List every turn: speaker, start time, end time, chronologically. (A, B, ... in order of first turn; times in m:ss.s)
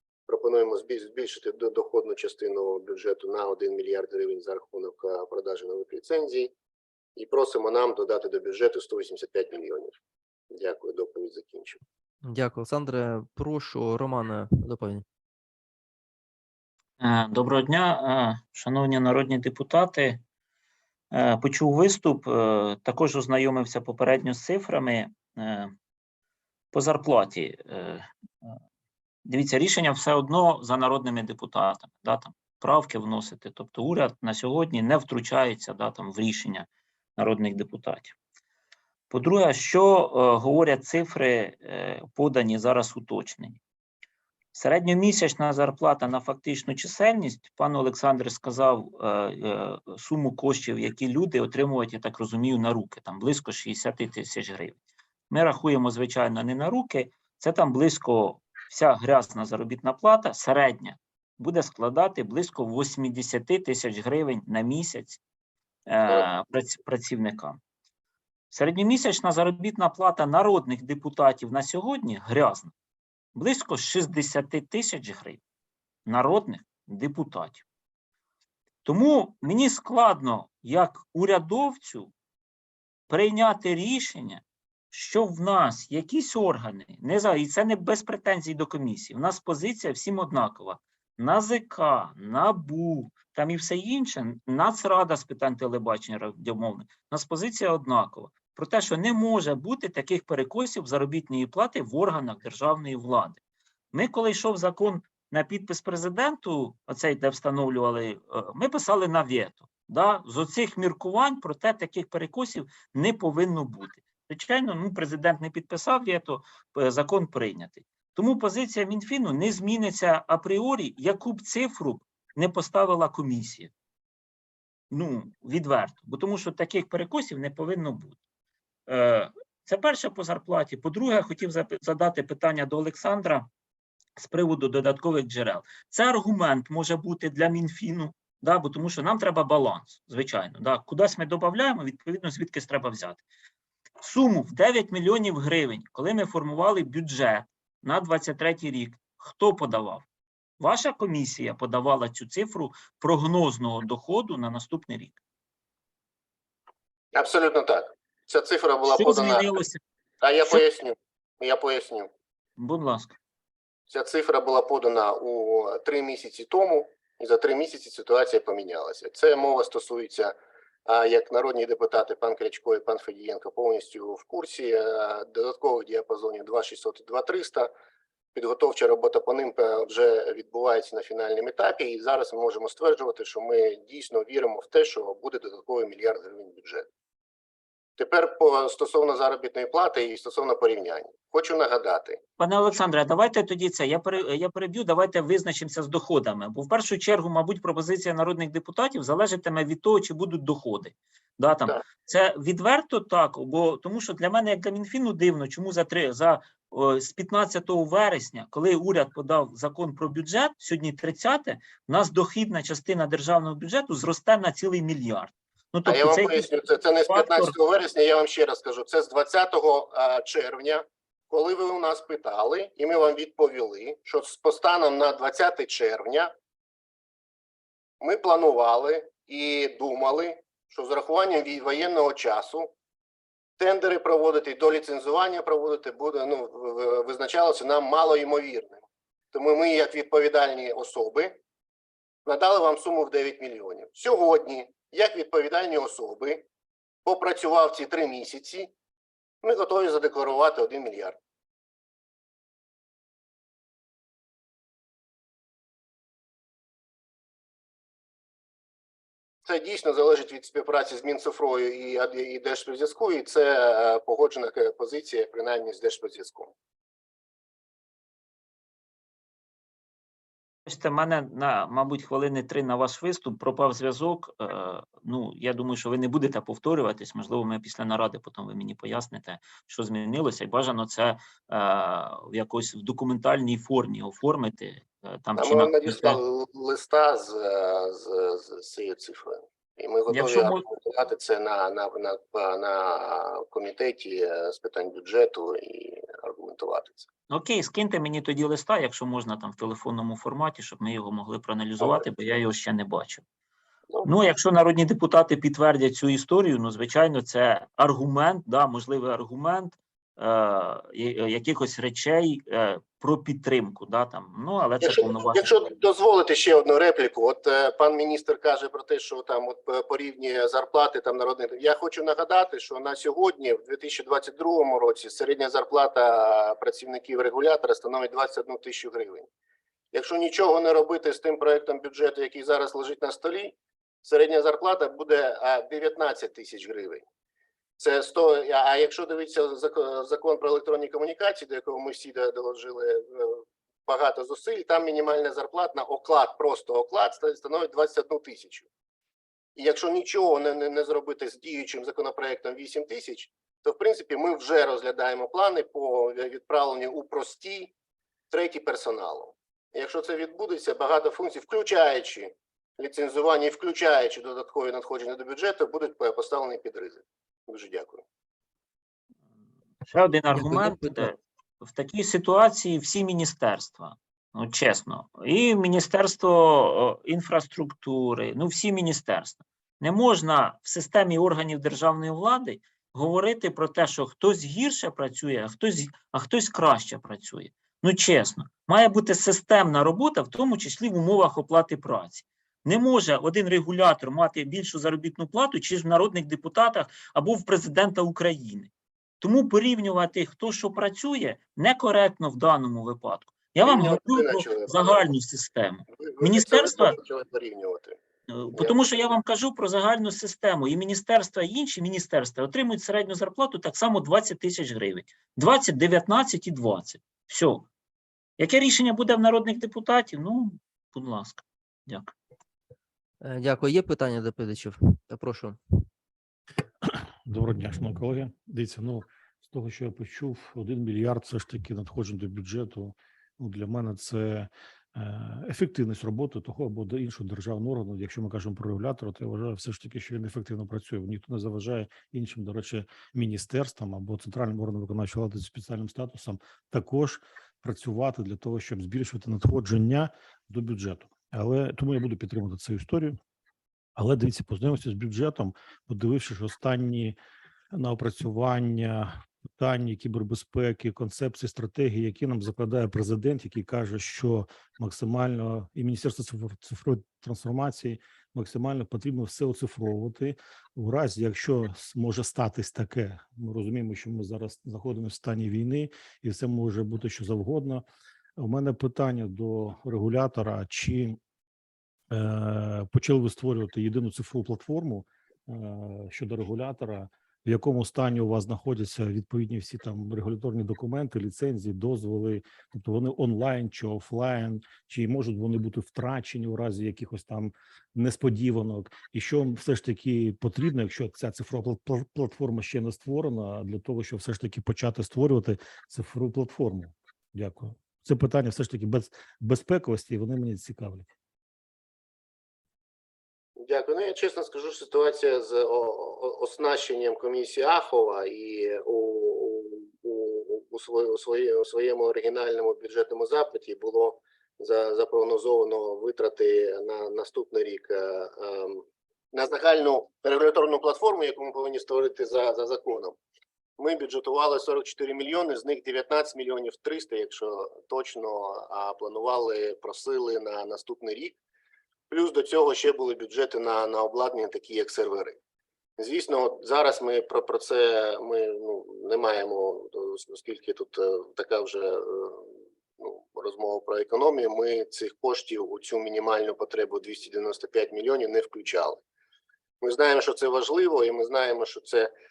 0:00.3-0:06.5 A
0:07.2-0:10.0 A
0:10.5-0:11.8 A
0:12.2-0:15.0 B
0:17.0-0:20.2 C
0:21.1-0:25.7 C
0:26.7-0:28.6 C
0:29.3-0:38.2 C
0:39.1-0:43.6 C
0:44.5-0:54.8 C
0:55.3-1:05.2 C
1:05.9-1:07.6 C
1:08.5-1:12.7 C
1:13.3-1:15.4 C
1:16.1-1:17.6 C
1:18.8-1:22.1 C
1:23.1-1:43.4 C
1:43.9-2:03.7 C
2:04.9-2:08.2 C
2:08.9-2:13.5 C
2:14.2-2:23.2 C
2:24.0-2:30.0 C
2:30.6-2:35.2 C
2:37.1-2:39.6 A
2:38.9-2:39.8 C
2:40.2-2:42.1 A
2:42.6-2:43.2 C
2:43.9-2:50.3 A
2:50.8-2:57.7 A
2:58.3-3:06.9 A
3:08.0-3:12.2 A
3:12.4-3:36.5 C
3:35.8-3:46.3 A
3:37.1-3:37.5 C
3:48.0-3:52.7 A
3:53.6-4:01.4 A
4:02.2-4:06.4 A
4:07.0-4:08.7 A
4:09.4-4:11.2 A
4:19.4-4:26.5 A
4:30.7-4:46.2 C
4:45.4-4:57.1 A
4:50.1-4:50.6 C
4:57.3-5:03.2 C
5:04.0-5:15.5 C
5:14.8-5:29.3 A
5:29.9-5:37.0 A
5:37.8-5:48.7 A
5:49.6-5:57.7 A
5:58.3-6:08.0 A
6:09.8-6:46.9 C
6:10.3-6:11.1 B
6:43.6-6:45.0 A
6:45.9-6:48.0 A
6:48.3-6:57.7 C
6:48.5-6:48.9 A
6:58.4-7:02.1 C
7:03.2-7:05.6 B
7:07.2-7:33.2 D
7:34.0-7:37.2 D
7:37.7-7:57.8 D
7:58.4-8:01.2 D
8:02.1-8:31.1 D
8:33.6-8:53.2 A
8:53.8-9:01.4 A
9:02.1-9:05.4 A
9:06.0-9:19.0 A
9:19.8-9:22.1 A